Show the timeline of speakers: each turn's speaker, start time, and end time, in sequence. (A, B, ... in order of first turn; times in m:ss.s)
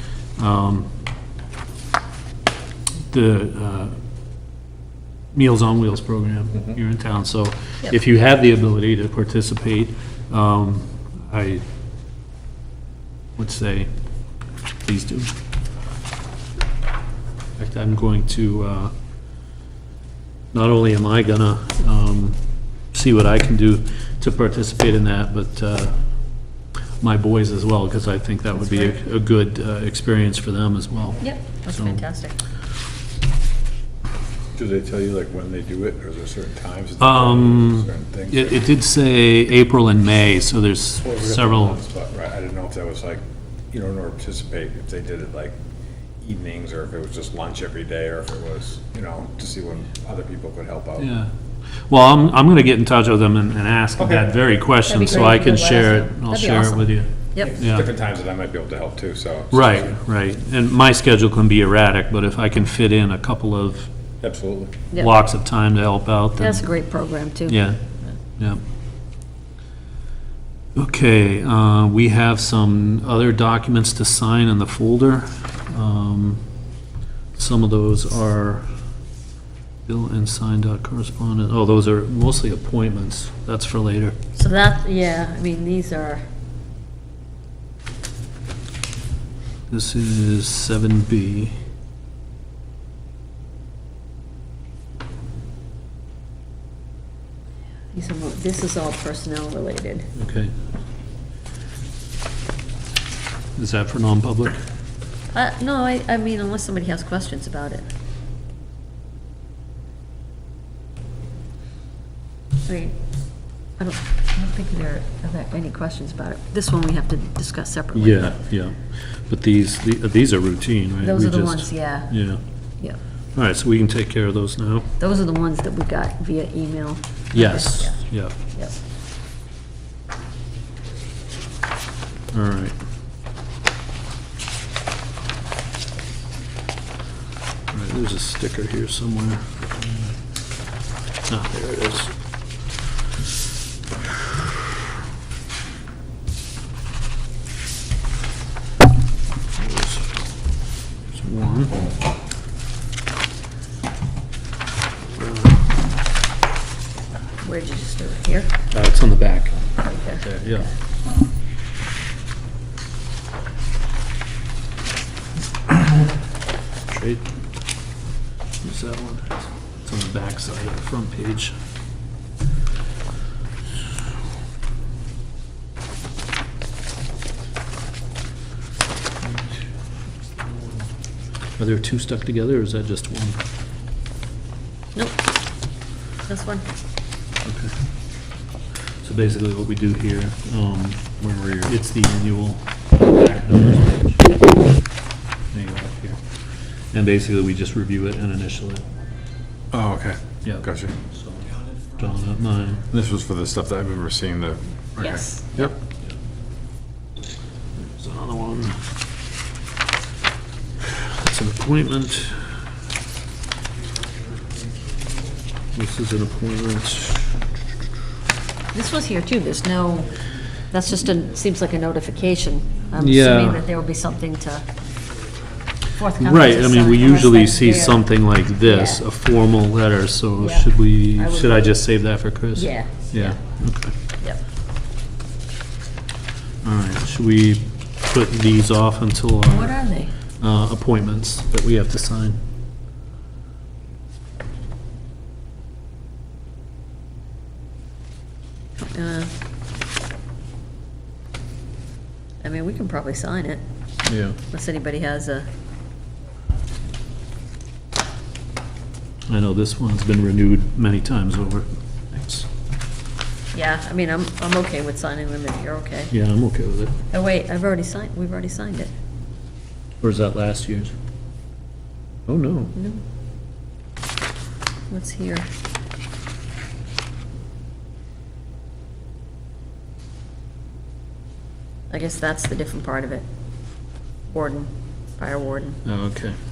0:00.4-0:00.9 A
0:03.1-0:04.0 A
0:05.3-0:11.6 A
0:13.4-0:13.9 A
0:14.8-0:15.3 A
0:17.6-0:18.9 A
0:20.5-0:22.4 A
0:22.9-0:26.0 A
0:27.0-0:32.0 A
0:31.2-0:32.4 B
0:34.6-0:38.6 C
0:37.0-0:41.8 A
0:41.0-0:45.6 C
0:46.2-0:51.1 C
0:51.0-0:51.3 A
0:51.9-0:57.8 A
0:54.0-0:54.3 C
0:54.8-0:57.5 B
0:57.4-0:59.9 C
0:59.5-1:03.9 A
1:04.2-1:04.8 C
1:04.9-1:06.7 A
1:06.4-1:07.6 B
1:07.5-1:07.8 A
1:08.4-1:08.6 A
1:10.8-1:16.4 A
1:17.4-1:18.7 A
1:19.8-1:24.2 A
1:24.4-1:26.2 B
1:29.7-1:31.6 A
1:37.9-1:40.1 B
1:40.1-1:40.5 A
1:43.6-1:44.6 A
1:45.3-1:47.8 B
1:52.6-1:53.0 B
1:53.8-1:58.3 B
1:57.9-2:02.4 A
2:01.0-2:02.1 B
2:03.3-2:04.9 A
2:05.0-2:08.7 B
2:07.3-2:08.3 A
2:12.3-2:12.7 A
2:17.7-2:19.6 A
2:21.3-2:22.1 A
2:29.6-2:30.2 A
2:31.1-2:31.8 A
2:35.2-2:35.6 A
2:37.4-2:38.5 B
2:38.7-2:40.7 A
2:39.8-2:40.2 B
2:46.9-2:47.2 A
2:48.6-2:51.6 A
2:59.2-2:59.6 A
3:00.4-3:00.8 A
3:01.6-3:03.4 A
3:06.3-3:06.6 B
3:07.4-3:07.7 A
3:09.0-3:14.2 A
3:11.2-3:11.7 C
3:15.5-3:16.2 A
3:16.9-3:18.8 A
3:19.7-3:20.9 C
3:21.2-3:22.8 A
3:22.9-3:25.7 C
3:25.0-3:25.7 B
3:27.8-3:28.8 A
3:30.9-3:32.6 A
3:35.7-3:37.4 A
3:38.7-3:40.2 B
3:40.7-3:44.6 B
3:43.0-3:43.6 A
3:45.9-3:48.1 B
3:46.2-3:54.0 A
3:48.6-3:49.0 B
3:50.4-3:51.8 B
3:52.5-3:53.4 B
3:56.6-3:59.8 A
3:59.4-4:00.1 B
4:00.4-4:02.4 A
4:08.8-4:09.3 B
4:12.4-4:13.6 B
4:14.0-4:14.4 A
4:14.4-4:15.5 B
4:19.3-4:22.5 A
4:23.5-4:26.1 B
4:26.1-4:27.0 A
4:27.1-4:28.9 B
4:30.0-4:30.9 A
4:32.3-4:32.7 A
4:32.7-4:33.0 B
4:34.9-4:35.5 B
4:41.9-4:43.2 B
4:44.3-4:45.8 B
4:45.8-4:46.4 A